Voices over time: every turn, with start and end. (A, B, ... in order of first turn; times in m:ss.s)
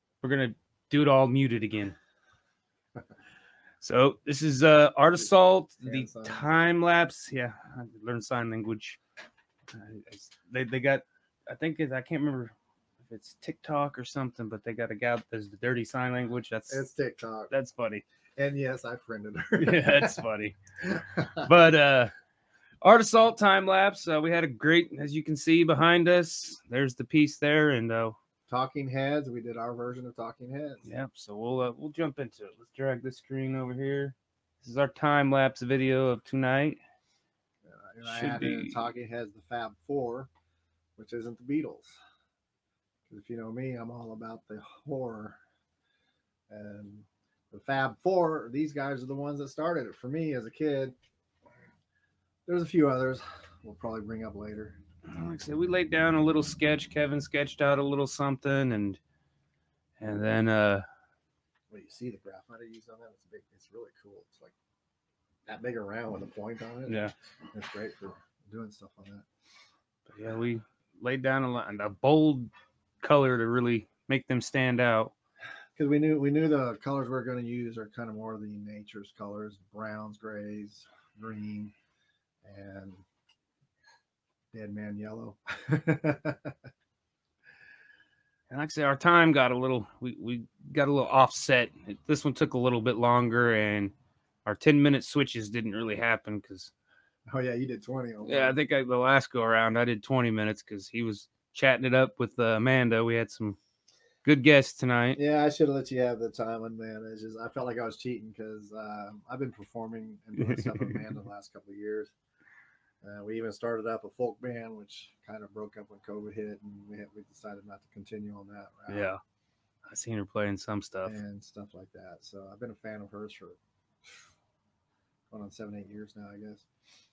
0:00.2-0:02.0 A
0:03.8-0:09.0 A
0:05.8-0:06.5 B
0:09.7-0:16.8 A
0:16.7-0:17.5 B
0:17.5-0:18.0 A
0:18.4-0:20.2 B
0:19.6-0:20.6 A
0:20.8-0:21.5 B
0:21.4-0:22.1 A
0:22.8-0:28.2 A
0:28.5-0:30.9 B
0:30.8-0:36.8 A
0:37.6-0:40.3 B
0:38.0-0:38.8 A
0:41.0-0:42.0 B
0:43.1-0:45.4 B
0:46.5-0:51.0 B
0:52.5-0:54.8 B
0:55.1-0:59.0 A
1:00.0-1:00.8 A
1:01.7-1:04.5 B
1:05.5-1:09.2 B
1:06.9-1:07.1 A
1:10.1-1:12.5 A
1:13.0-1:15.1 A
1:15.8-1:21.7 B
1:22.4-1:23.0 B
1:24.5-1:26.6 B
1:28.5-1:33.9 A
1:34.5-1:36.7 A
1:37.3-1:38.6 B
1:38.2-1:43.6 A
1:44.2-1:45.2 A
1:45.2-1:52.1 B
1:50.4-1:51.0 A
1:53.0-1:59.1 B
1:58.9-1:59.2 A
1:59.9-2:01.2 A
2:01.0-2:04.2 B
2:05.3-2:06.7 B